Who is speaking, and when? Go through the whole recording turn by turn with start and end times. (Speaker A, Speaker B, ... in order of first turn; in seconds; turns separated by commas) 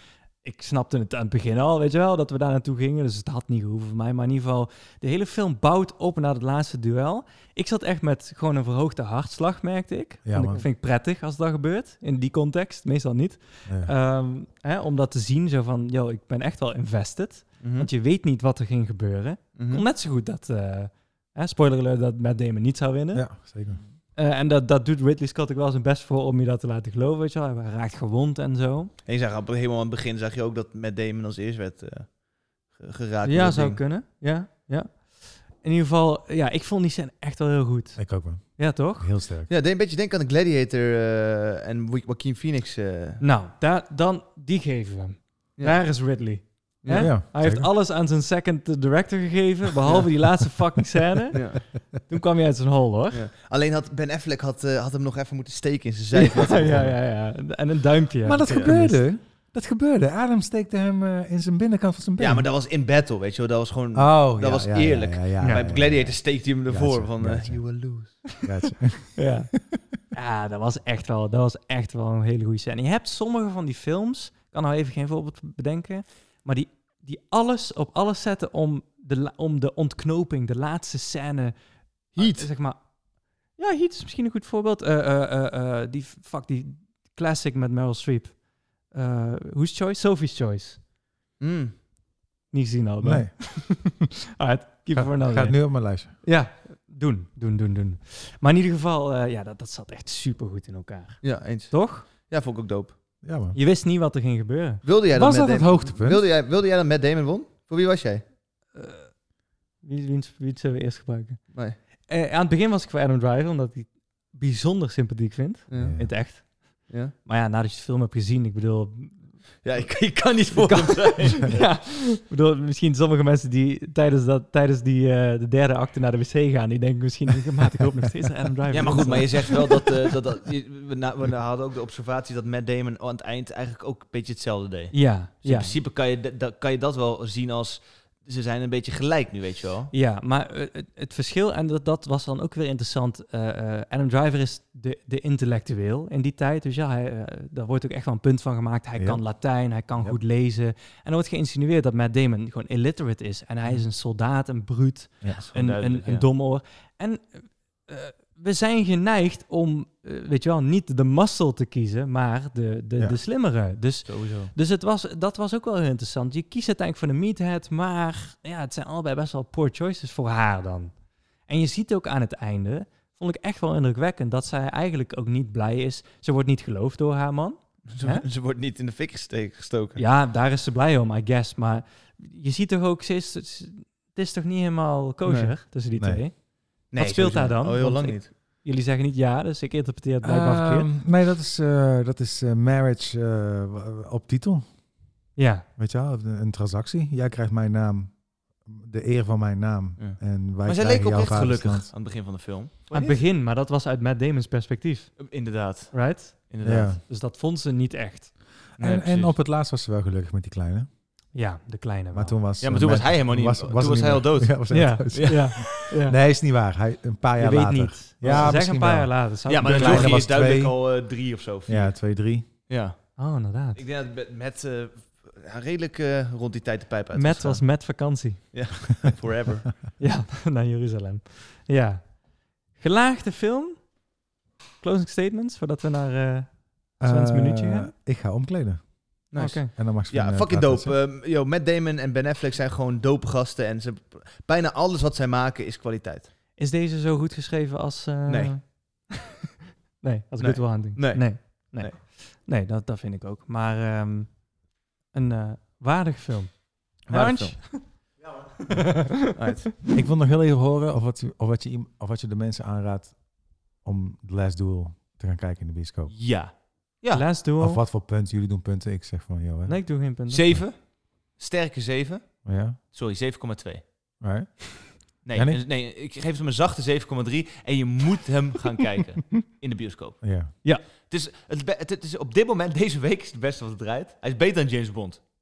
Speaker A: 0.4-23.5, Speaker B: 10.2-10.6, Speaker B: 13.7-13.9, Speaker C: 17.6-17.9, Speaker C: 19.6-19.8, Speaker B: 23.1-23.8, Speaker A: 24.1-28.9, Speaker C: 29.1-33.8, Speaker A: 33.2-39.1, Speaker B: 38.0-39.5, Speaker C: 39.5-43.2, Speaker A: 43.2-53.2, Speaker C: 45.6-47.1, Speaker B: 46.9-47.7, Speaker C: 51.3-51.6, Speaker C: 53.1-57.0, Speaker A: 56.1-59.1, Speaker B: 56.6-57.0, Speaker B: 58.2-62.5, Speaker C: 58.5-58.8, Speaker C: 62.2-68.3, Speaker B: 63.9-67.9, Speaker A: 65.4-65.7, Speaker B: 68.4-69.8, Speaker A: 69.1-69.6, Speaker A: 70.1-90.8, Speaker C: 82.2-82.5, Speaker C: 91.4-91.7, Speaker A: 92.5-102.1, Speaker B: 93.0-93.9, Speaker B: 94.9-96.1, Speaker C: 101.2-103.0, Speaker B: 103.2-103.6, Speaker A: 103.5-104.8, Speaker C: 104.8-108.2, Speaker B: 105.1-106.2, Speaker A: 108.7-109.2, Speaker A: 109.8-119.9, Speaker C: 115.7-117.1, Speaker B: 115.8-116.1, Speaker C: 119.6-121.7, Speaker A: 120.5-130.1, Speaker C: 128.7-139.9, Speaker A: 134.9-135.7, Speaker A: 139.9-178.3, Speaker B: 149.0-149.3, Speaker C: 155.3-156.2, Speaker C: 164.0-164.5, Speaker C: 177.9-180.0, Speaker A: 180.0-190.9, Speaker C: 185.2-185.6, Speaker B: 186.0-186.2, Speaker C: 186.9-188.3, Speaker B: 190.2-194.8, Speaker A: 195.3-195.7, Speaker B: 195.8-201.9, Speaker C: 200.0-203.2, Speaker A: 202.9-208.3, Speaker C: 205.2-207.0, Speaker B: 206.6-207.0, Speaker B: 208.7-210.9, Speaker C: 208.8-209.3, Speaker A: 211.3-212.4, Speaker B: 212.1-221.0, Speaker C: 212.6-215.7, Speaker A: 214.7-216.2, Speaker A: 217.4-220.2, Speaker C: 218.2-218.6, Speaker C: 219.5-222.1, Speaker B: 221.7-222.4, Speaker C: 222.7-229.8, Speaker A: 223.2-223.8, Speaker A: 227.1-228.5, Speaker A: 230.0-234.0, Speaker A: 234.8-237.9, Speaker B: 237.0-239.1, Speaker C: 239.3-246.3, Speaker A: 239.3-239.7, Speaker B: 239.7-240.9, Speaker A: 246.6-249.2, Speaker C: 248.3-248.6, Speaker A: 250.0-254.5, Speaker C: 250.4-252.0, Speaker A: 255.1-259.5, Speaker C: 257.1-257.9, Speaker C: 259.2-259.8, Speaker B: 259.9-266.2, Speaker C: 266.1-267.3, Speaker A: 267.1-267.8, Speaker B: 267.6-270.0, Speaker A: 269.6-270.5, Speaker C: 270.3-274.2, Speaker B: 272.4-272.8, Speaker B: 274.2-275.6, Speaker C: 275.2-285.2, Speaker B: 280.2-280.5